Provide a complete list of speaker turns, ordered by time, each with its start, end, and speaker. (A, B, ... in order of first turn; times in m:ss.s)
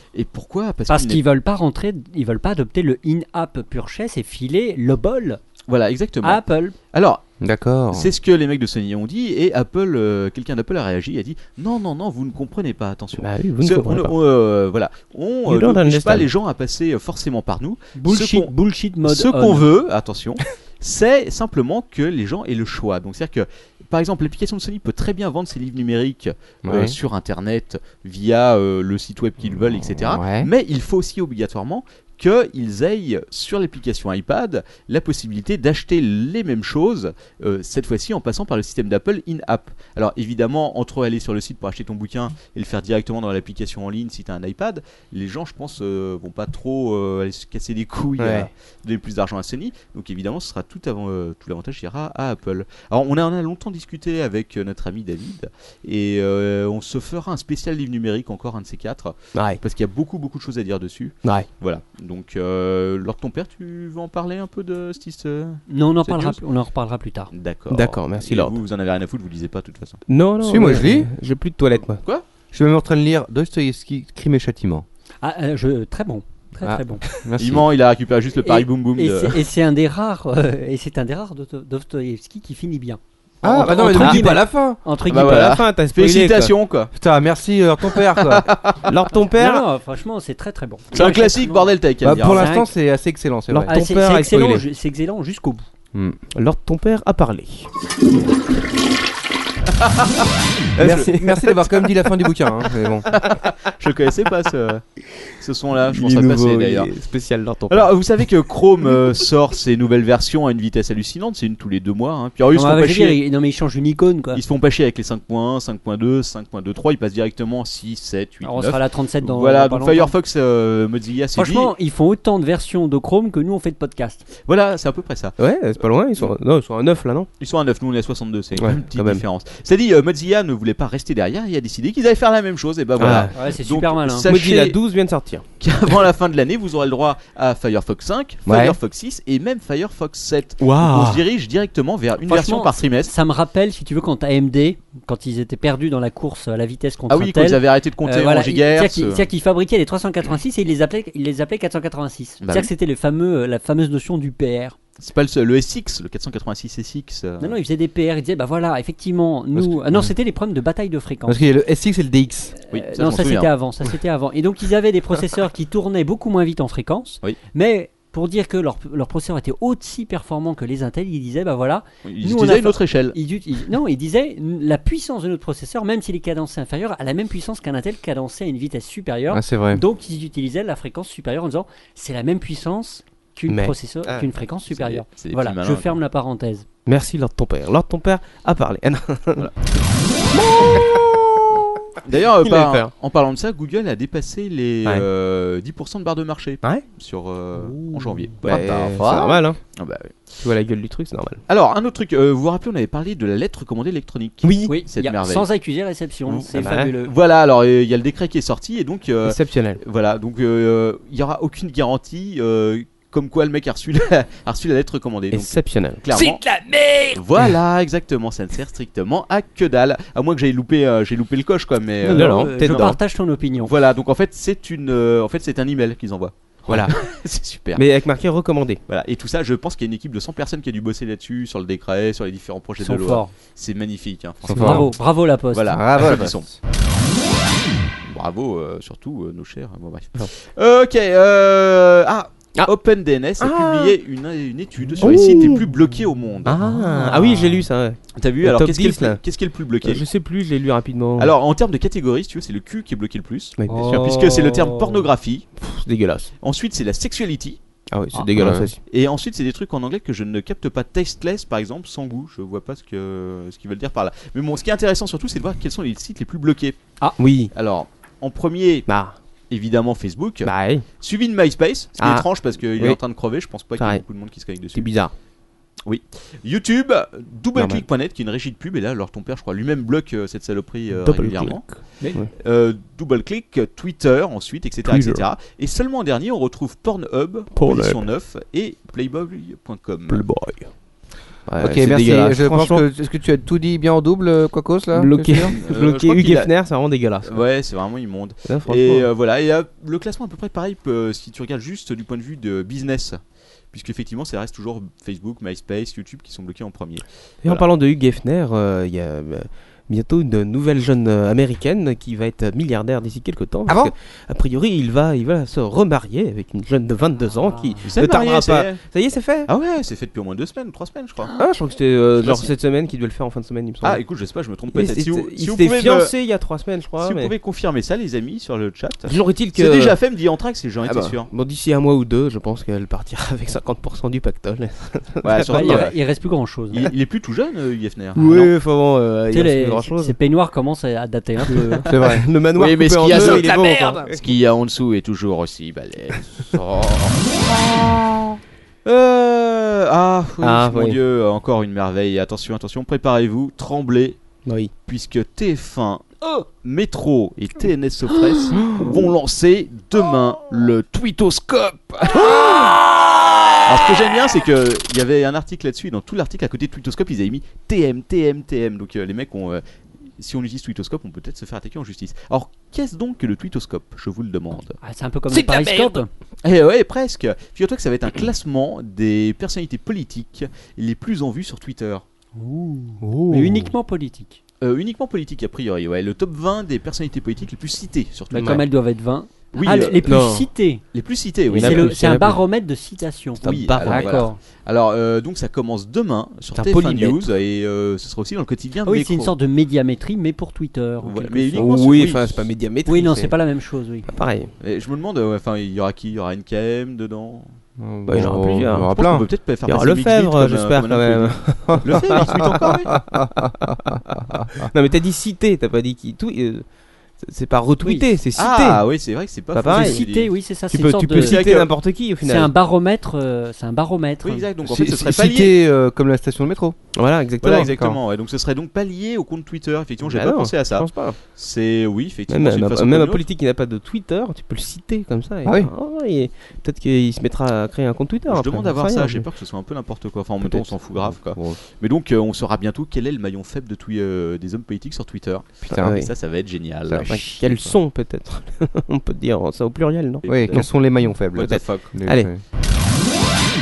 0:00.1-0:01.2 A
0:00.9-0:05.4 B
0:05.7-0:07.2 A
0:06.2-0:06.7 B
0:07.4-0:08.1 C
0:07.9-1:06.4 A
0:13.2-0:14.1 D
0:15.4-0:16.3 D
0:18.0-0:19.6 B
0:26.6-0:27.0 C
0:29.5-0:30.5 C
0:48.2-0:48.5 D
0:59.3-0:59.6 D
1:05.7-1:07.3 B
1:07.3-1:10.0 A
1:07.7-1:08.6 D
1:10.1-1:12.0 D
1:10.4-1:11.1 C
1:12.5-1:14.8 C
1:15.2-1:17.0 B
1:16.6-1:17.7 C
1:17.4-1:19.4 A
1:18.4-1:25.6 B
1:23.4-1:24.8 C
1:23.6-1:24.4 D
1:25.1-1:26.9 A
1:25.1-1:26.5 D
1:26.9-1:28.5 C
1:28.0-1:28.9 A
1:28.8-1:29.6 D
1:29.3-1:32.7 B
1:30.9-1:32.5 A
1:32.0-1:33.7 C
1:33.5-1:34.6 D
1:33.6-1:35.6 B
1:36.3-1:37.7 D
1:39.8-1:40.3 A
1:40.8-1:41.6 D
1:40.8-1:43.1 C
1:43.1-1:44.8 A
1:45.4-1:46.9 A
1:45.8-1:47.9 D
1:47.7-1:53.2 A
1:52.5-1:54.4 B
1:54.3-2:01.7 A
1:58.4-2:00.1 B
2:01.4-2:04.3 B
2:04.4-2:05.4 A
2:05.4-2:07.3 D
2:07.4-2:14.8 A
2:08.6-2:09.2 D
2:13.0-2:13.3 D
2:13.3-2:14.3 B
2:14.2-2:15.4 D
2:15.6-2:23.1 A
2:18.4-2:18.8 D
2:20.6-2:21.2 D
2:22.2-2:34.8 B
2:27.1-2:29.2 A
2:32.4-2:32.7 A
2:35.0-2:37.6 A
2:37.4-2:41.4 B
2:39.6-2:40.1 C
2:41.2-2:42.5 C
2:42.7-2:43.5 A
2:42.7-3:06.6 B
2:52.0-2:53.2 A
2:59.3-2:59.8 C
3:03.5-3:04.2 D
3:04.7-3:06.0 A
3:06.8-3:09.5 D
3:10.4-3:11.4 D
3:12.0-3:19.2 A
3:12.4-3:12.9 D
3:17.8-3:18.1 B
3:18.4-3:19.6 D
3:19.0-3:19.3 C
3:19.8-3:20.1 A
3:20.4-3:21.4 D
3:21.5-3:25.5 A
3:24.4-3:24.7 D
3:24.7-3:27.1 B
3:26.2-3:36.4 A
3:26.5-3:26.9 D
3:29.2-3:29.8 D
3:35.3-3:36.0 D
3:36.1-3:37.2 E
3:37.1-3:43.0 A
3:42.0-3:43.7 B
3:42.0-3:43.0 D
3:43.6-3:47.8 A
3:46.7-3:47.0 D
3:47.8-3:48.8 D
3:48.9-3:54.9 A
3:52.8-3:53.3 B
3:54.5-3:54.9 C
3:54.5-3:55.8 B
3:55.5-3:56.5 A
3:55.7-3:56.5 C
3:58.0-4:06.6 A
4:03.4-4:04.0 D
4:05.0-4:05.7 D
4:06.4-4:09.2 D
4:06.9-4:07.6 B
4:08.1-4:10.0 A
4:09.8-4:11.3 D
4:11.2-4:15.5 A
4:13.6-4:14.4 D
4:13.7-4:15.0 B
4:15.6-4:16.3 D
4:16.4-4:17.6 A
4:17.9-4:18.8 D
4:18.3-4:18.7 C
4:18.8-4:26.8 A
4:27.2-4:27.5 D
4:27.5-4:28.9 A
4:28.9-4:29.2 D
4:29.5-4:34.9 A
4:30.4-4:30.8 D
4:32.0-4:33.0 D
4:33.8-4:34.0 D
4:34.7-4:35.1 D
4:35.8-4:41.7 A
4:37.5-4:37.8 D
4:40.9-4:42.3 D
4:42.3-4:50.2 A
4:44.8-4:45.2 D
4:47.5-4:48.0 D
4:50.1-4:50.7 D
4:51.4-4:52.8 D
4:51.6-4:55.6 C
4:54.9-4:57.4 D
4:55.5-4:56.5 A
4:57.2-5:03.2 A
4:58.4-4:59.1 D
5:03.7-5:07.6 A
5:07.4-5:19.5 D
5:13.7-5:13.9 C
5:17.5-5:17.8 B
5:17.8-5:18.8 A
5:19.4-5:21.3 A
5:21.4-5:24.0 D
5:22.2-5:22.5 A
5:23.8-5:26.1 A
5:24.7-5:27.3 D
5:27.0-5:31.3 A
5:29.1-5:30.0 D
5:30.8-5:35.8 D
5:35.2-5:36.0 A
5:35.5-5:36.9 B
5:36.7-5:38.5 A
5:38.1-5:40.1 D
5:39.3-5:41.9 B
5:41.5-5:44.2 D
5:41.9-5:42.2 C
5:42.6-5:48.2 A
5:43.1-5:44.2 E
5:48.8-5:54.2 A
5:50.4-5:51.0 D
5:54.4-5:54.7 D
5:54.8-6:02.8 A
5:58.6-5:58.9 D
6:03.6-6:09.6 A
6:10.2-6:14.8 A
6:14.8-6:16.1 B
6:15.3-6:16.0 E
6:16.4-6:22.0 A
6:22.4-6:24.4 B
6:23.0-6:23.7 D
6:24.6-6:28.7 A
6:28.3-6:28.6 D
6:28.3-6:30.8 B
6:29.5-6:30.3 A
6:30.0-6:30.5 D
6:30.9-6:32.0 A
6:31.5-6:32.4 D
6:31.5-6:34.4 B
6:33.4-6:34.2 D
6:33.4-6:39.3 A
6:36.5-6:37.3 D
6:38.8-6:41.7 B
6:41.0-6:42.5 A
6:41.6-6:43.3 D
6:42.8-6:44.1 B
6:44.0-6:44.5 D
6:44.6-6:47.5 A
6:47.8-6:49.2 C
6:48.1-6:49.0 D
6:48.2-6:53.0 A
6:49.6-6:52.7 D
6:51.7-6:54.7 C
6:54.7-6:56.6 D
6:57.2-6:58.8 D
6:58.4-7:00.3 A
6:59.5-7:00.0 D
6:59.7-7:01.4 B
7:00.7-7:02.5 D
7:01.1-7:01.7 A
7:02.2-7:04.5 B
7:04.2-7:05.5 A
7:04.6-7:06.8 C
7:06.9-7:07.7 D
7:07.4-7:13.2 A
7:07.6-7:08.0 C
7:10.0-7:11.2 D
7:12.3-7:19.3 D
7:15.4-7:15.7 C
7:18.3-7:27.4 A
7:20.4-7:20.7 D
7:21.0-7:21.6 C
7:25.6-7:26.0 C
7:25.8-7:26.1 D
7:26.9-7:27.7 C
7:27.0-7:32.3 D
7:30.2-7:30.7 A
7:30.3-7:32.4 C
7:31.3-7:31.9 A